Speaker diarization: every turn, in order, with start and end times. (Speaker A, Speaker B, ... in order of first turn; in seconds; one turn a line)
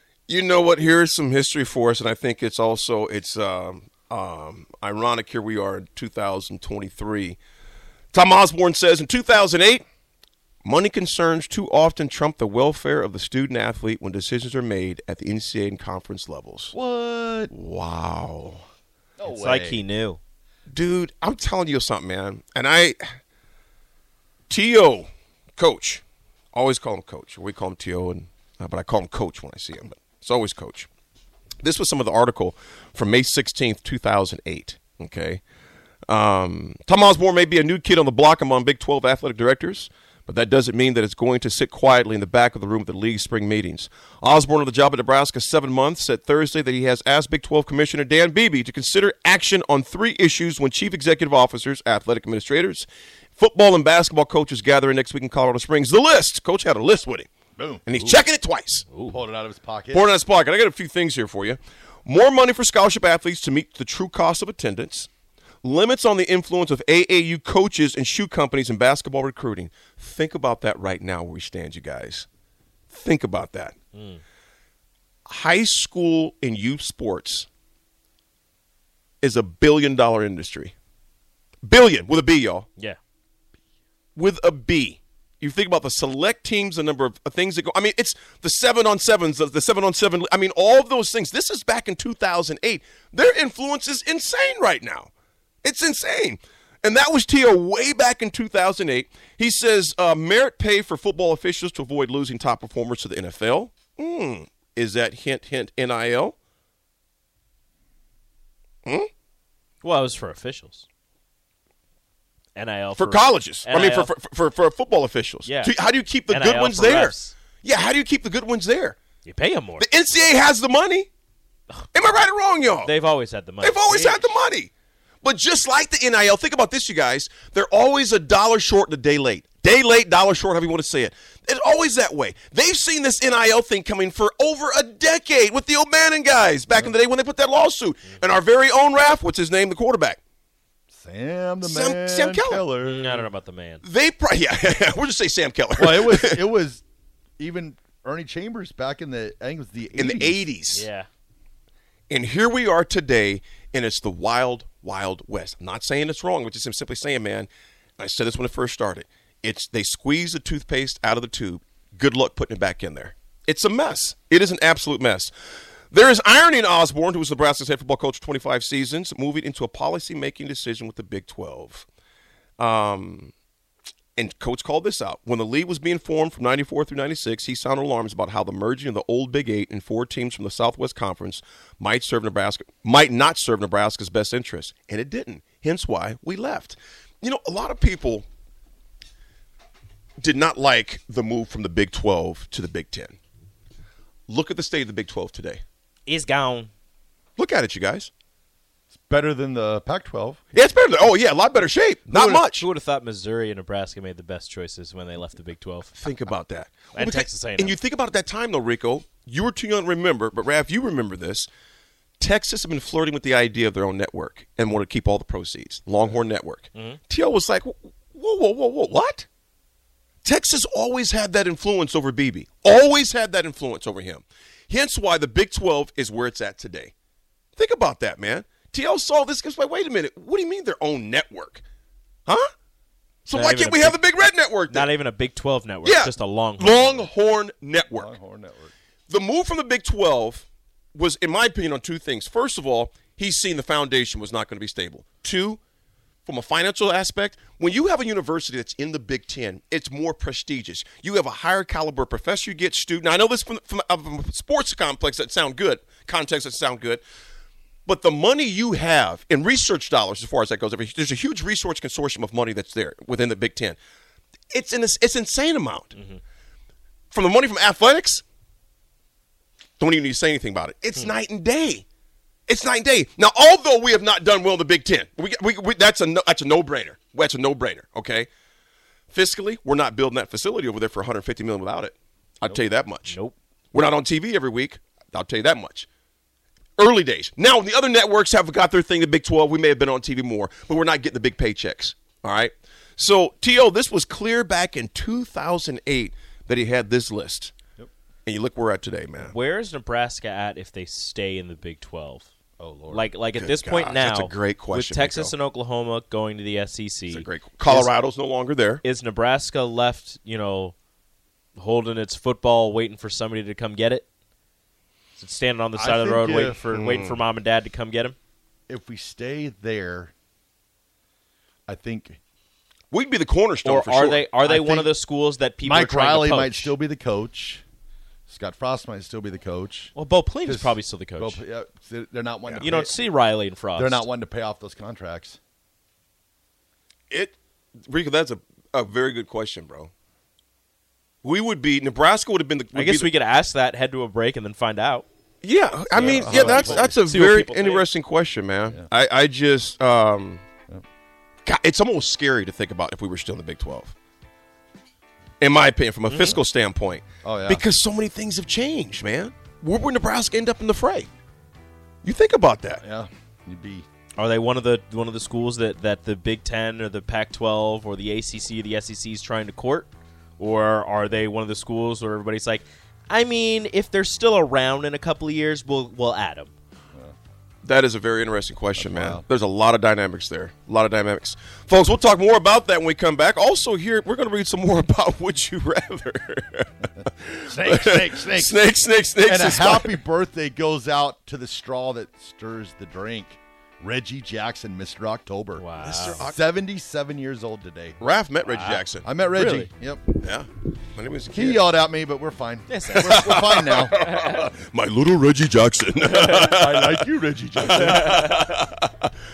Speaker A: 0.3-7.4
Speaker A: 8.1-9.8
Speaker A: 10.6-16.7
Speaker B: 16.7-17.5
Speaker A: 17.5-18.6
Speaker B: 19.2-19.8
Speaker C: 19.3-20.2
Speaker A: 20.7-23.2
Speaker A: 24.5-26.0
Speaker A: 26.5-30.9
Speaker A: 31.6-35.4
Speaker A: 36.1-57.3
Speaker B: 57.6-58.2
Speaker A: 57.9-58.9
Speaker C: 58.9-59.2
Speaker B: 59.0-60.2
Speaker A: 59.9-65.1
Speaker A: 65.6-72.3
Speaker A: 72.9-73.8
Speaker C: 73.9-74.2
Speaker A: 75.3-77.5
Speaker A: 79.2-80.7
Speaker A: 81.6-82.7
Speaker A: 84.2-95.1
Speaker A: 95.6-106.4
Speaker C: 109.8-110.9
Speaker C: 112.5-114.1
Speaker A: 113.0-119.0
Speaker C: 115.4-115.7
Speaker C: 116.3-117.3
Speaker C: 119.2-119.8
Speaker A: 119.8-121.1
Speaker A: 121.9-122.9
Speaker C: 122.8-124.4
Speaker A: 123.6-140.2
Speaker B: 140.9-143.3
Speaker A: 141.6-142.6
Speaker C: 142.8-143.8
Speaker A: 143.8-146.4
Speaker B: 145.8-146.8
Speaker B: 147.4-150.5
Speaker A: 149.9-150.9
Speaker C: 150.7-151.1
Speaker A: 152.1-165.3
Speaker A: 165.9-171.9
Speaker A: 172.6-173.3
Speaker A: 174.2-188.2
Speaker A: 190.2-193.2
Speaker A: 194.3-195.6
Speaker C: 196.1-196.7
Speaker A: 197.4-198.1
Speaker B: 198.9-200.4
Speaker A: 200.5-202.7
Speaker C: 202.1-206.0
Speaker A: 205.9-211.5
Speaker C: 206.9-207.8
Speaker A: 212.2-219.3
Speaker C: 216.7-217.0
Speaker A: 220.2-226.9
Speaker A: 227.6-231.6
Speaker A: 233.2-234.9
Speaker C: 233.3-234.0
Speaker C: 234.7-237.1
Speaker A: 235.8-238.1
Speaker B: 237.9-238.7
Speaker A: 239.1-245.6
Speaker A: 246.2-257.0
Speaker A: 257.9-263.8
Speaker A: 264.5-265.9
Speaker C: 265.9-266.2
Speaker A: 267.1-268.2
Speaker A: 269.8-271.8
Speaker A: 272.5-278.3
Speaker A: 279.1-283.2
Speaker C: 283.1-283.3
Speaker A: 283.7-285.9
Speaker A: 286.8-297.5
Speaker A: 298.2-299.4
Speaker C: 299.2-302.3
Speaker B: 302.6-303.1
Speaker C: 302.9-307.9
Speaker A: 303.3-305.3
Speaker A: 307.1-308.8
Speaker C: 308.8-310.8
Speaker C: 311.6-314.1
Speaker C: 315.2-318.1
Speaker B: 315.7-316.6
Speaker A: 316.7-317.2
Speaker B: 318.7-320.1
Speaker B: 321.7-322.2
Speaker A: 322.9-324.2
Speaker C: 323.6-326.7
Speaker B: 324.4-324.9
Speaker B: 325.6-327.6
Speaker B: 328.3-329.9
Speaker C: 329.9-331.4
Speaker B: 330.4-332.9
Speaker C: 332.6-334.1
Speaker B: 333.7-335.4
Speaker A: 337.1-339.9
Speaker A: 341.2-343.1
Speaker C: 342.7-345.1
Speaker A: 345.4-350.4
Speaker C: 345.9-347.9
Speaker B: 345.9-347.0
Speaker A: 351.4-353.9
Speaker A: 355.4-361.1
Speaker C: 356.1-356.4
Speaker B: 357.2-357.6
Speaker A: 362.0-362.8
Speaker B: 362.8-363.8
Speaker C: 364.2-376.5
Speaker A: 377.6-390.0
Speaker B: 378.8-379.2
Speaker B: 387.4-388.7
Speaker B: 389.2-398.0
Speaker C: 395.6-396.3
Speaker A: 395.8-396.4
Speaker A: 398.0-399.1
Speaker C: 398.4-399.7
Speaker B: 399.0-400.2
Speaker A: 400.2-401.7
Speaker B: 401.3-404.0
Speaker C: 402.7-403.2
Speaker A: 402.9-409.1
Speaker B: 406.4-408.2